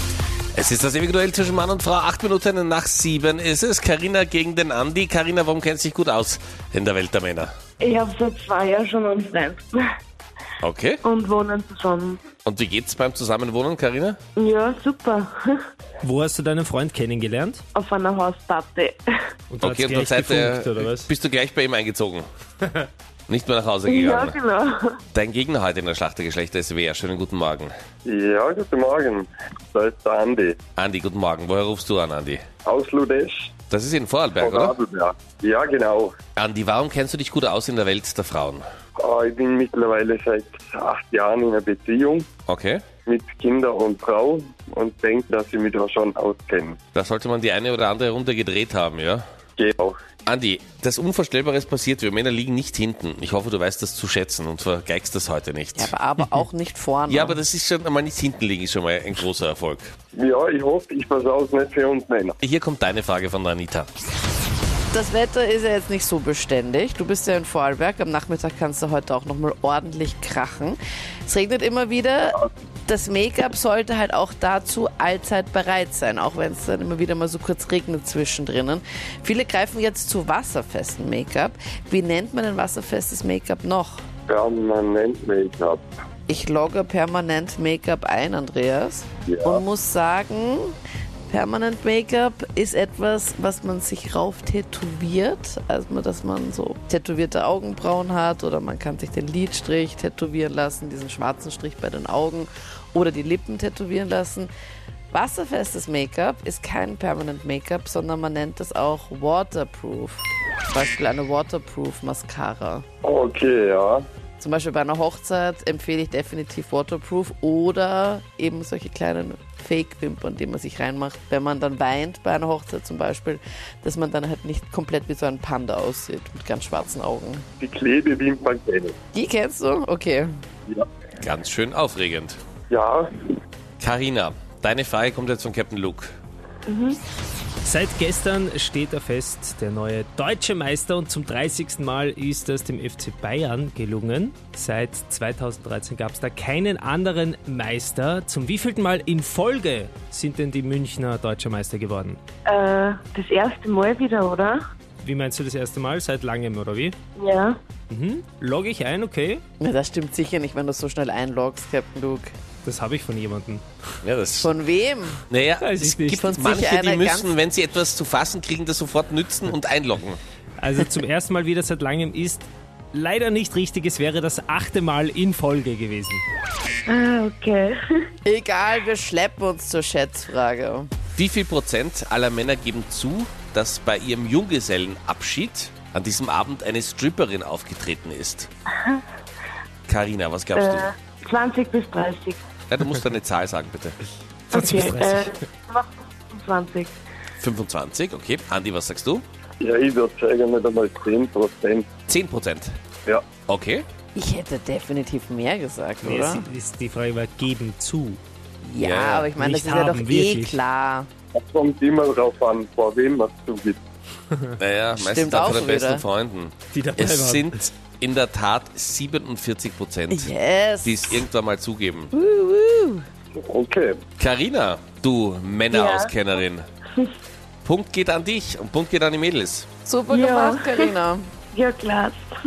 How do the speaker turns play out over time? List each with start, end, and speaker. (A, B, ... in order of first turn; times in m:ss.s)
0:00.5-0:07.5 A
0:07.8-0:09.8 B
0:10.6-0:11.0 A
0:11.0-0:12.2 B
0:12.4-0:14.2 A
0:14.4-0:15.6 B
0:16.0-0:17.6 C
0:17.7-0:19.0 B
0:19.5-0:21.1 C
0:19.6-0:22.3 A
0:23.3-0:24.4 A
0:23.9-0:25.0 B
0:25.1-0:27.7 A
0:28.0-0:30.6 D
0:30.8-0:32.4 A
0:32.6-0:33.5 D
0:33.7-0:34.7 A
0:34.4-0:36.2 D
0:36.4-0:38.6 A
0:39.0-0:42.3 D
0:42.5-0:42.8 A
0:43.0-0:46.8 D
0:46.9-0:49.2 A
0:49.6-0:50.0 D
0:50.2-0:55.9 A
0:55.8-0:57.4 E
0:57.1-0:59.9 A
1:00.1-1:02.4 D
1:02.4-1:03.9 A
1:04.9-1:24.0 E
1:24.3-1:25.8 D
1:26.3-1:30.8 E
1:29.3-1:29.6 D
1:31.3-1:44.5 E
1:45.1-1:52.8 E
1:53.0-1:54.0 D
1:54.4-2:07.4 E
2:07.6-2:09.0 D
2:09.1-2:10.4 E
2:11.2-2:12.4 A
2:12.7-2:13.1 D
2:13.8-2:16.1 A
2:16.7-2:17.0 B
2:17.6-2:32.2 C
2:32.5-2:34.6 B
2:35.0-2:37.0 C
2:37.2-2:37.6 B
2:37.9-2:39.4 C
2:39.6-2:42.3 E
2:42.6-2:43.6 C
2:44.0-2:44.5 A
2:44.4-2:45.2 E
2:45.3-2:50.2 A
2:45.6-2:46.2 C
2:46.2-2:47.3 E
2:50.6-2:56.2 C
2:56.9-2:57.8 B
2:58.2-3:00.9 E
3:01.1-3:08.5 A
3:09.9-3:10.9 A
3:10.5-3:12.4 B
3:12.7-3:14.0 A
3:14.5-3:17.0 B
3:14.5-3:15.3 C
3:17.4-3:19.2 A
3:19.6-3:21.9 D
3:22.1-3:22.7 A
3:23.5-3:23.8 A
3:24.1-3:26.5 E
3:26.0-3:28.2 C
3:28.6-3:31.1 E
3:28.8-3:29.3 A
3:29.4-3:30.6 C
3:31.3-3:33.8 D
3:34.6-3:40.3 A
3:35.0-3:36.0 E
3:36.7-3:37.5 C
3:40.1-3:41.3 E
3:40.8-3:42.1 A
3:42.1-3:43.0 E
3:43.4-3:44.0 D
3:44.2-3:46.6 A
3:45.7-3:46.1 B
3:47.6-3:49.7 A
3:49.8-3:51.3 E
3:50.1-3:50.9 B
3:51.5-3:52.3 B